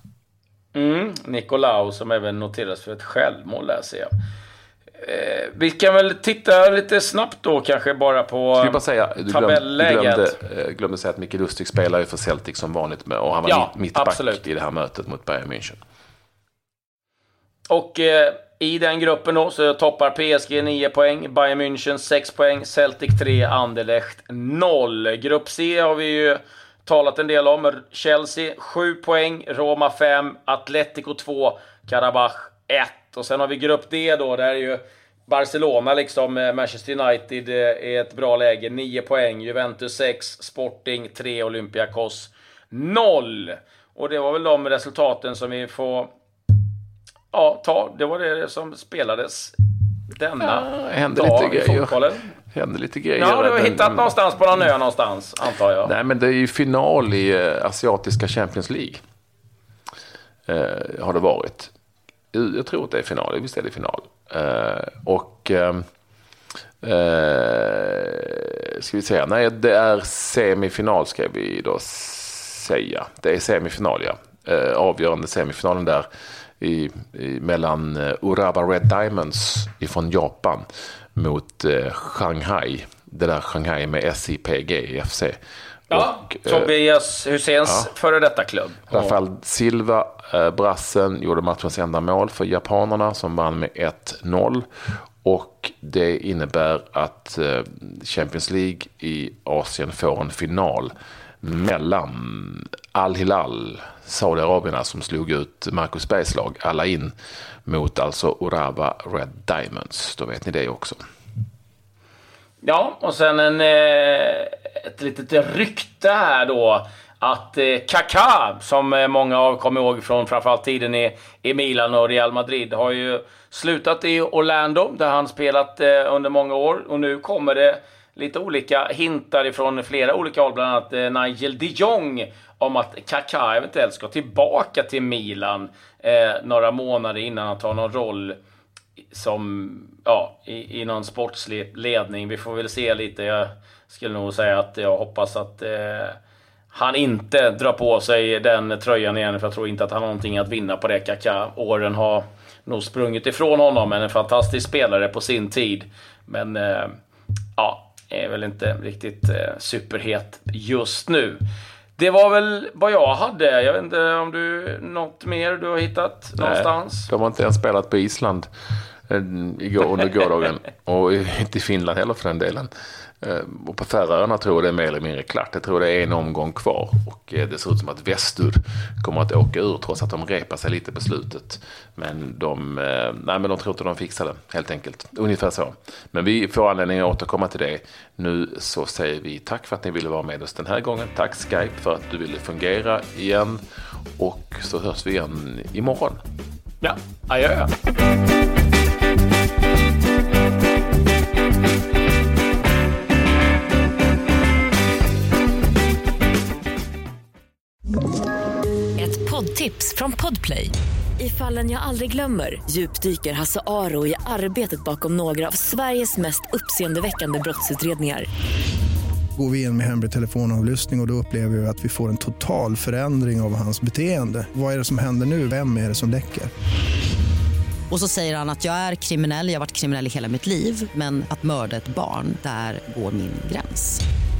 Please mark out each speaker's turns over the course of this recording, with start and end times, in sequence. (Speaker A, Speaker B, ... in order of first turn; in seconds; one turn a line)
Speaker A: 0.7-4.1
Speaker A: 5.0-10.4
Speaker B: 8.6-15.8
Speaker A: 13.4-14.4
Speaker A: 17.7-46.1
Speaker A: 47.3-49.5
Speaker A: 50.1-52.3
Speaker B: 50.4-54.1
Speaker A: 53.2-55.9
Speaker B: 55.8-59.0
Speaker B: 60.5-61.7
Speaker B: 62.3-65.8
Speaker B: 66.8-76.1
Speaker B: 76.6-80.6
Speaker B: 81.2-85.4
Speaker B: 85.9-86.7
Speaker A: 85.9-89.2
Speaker B: 88.9-94.7
Speaker B: 95.2-107.1
Speaker B: 107.7-111.0
Speaker A: 112.6-138.4
Speaker A: 139.1-146.2
Speaker A: 146.7-156.9
Speaker A: 157.6-161.4
Speaker A: 162.0-167.1
Speaker B: 166.4-168.5
Speaker B: 169.1-172.7
Speaker B: 173.2-193.6
Speaker B: 194.2-196.2
Speaker A: 196.8-197.7
Speaker C: 209.0-218.3
Speaker D: 219.4-226.5
Speaker E: 227.9-234.0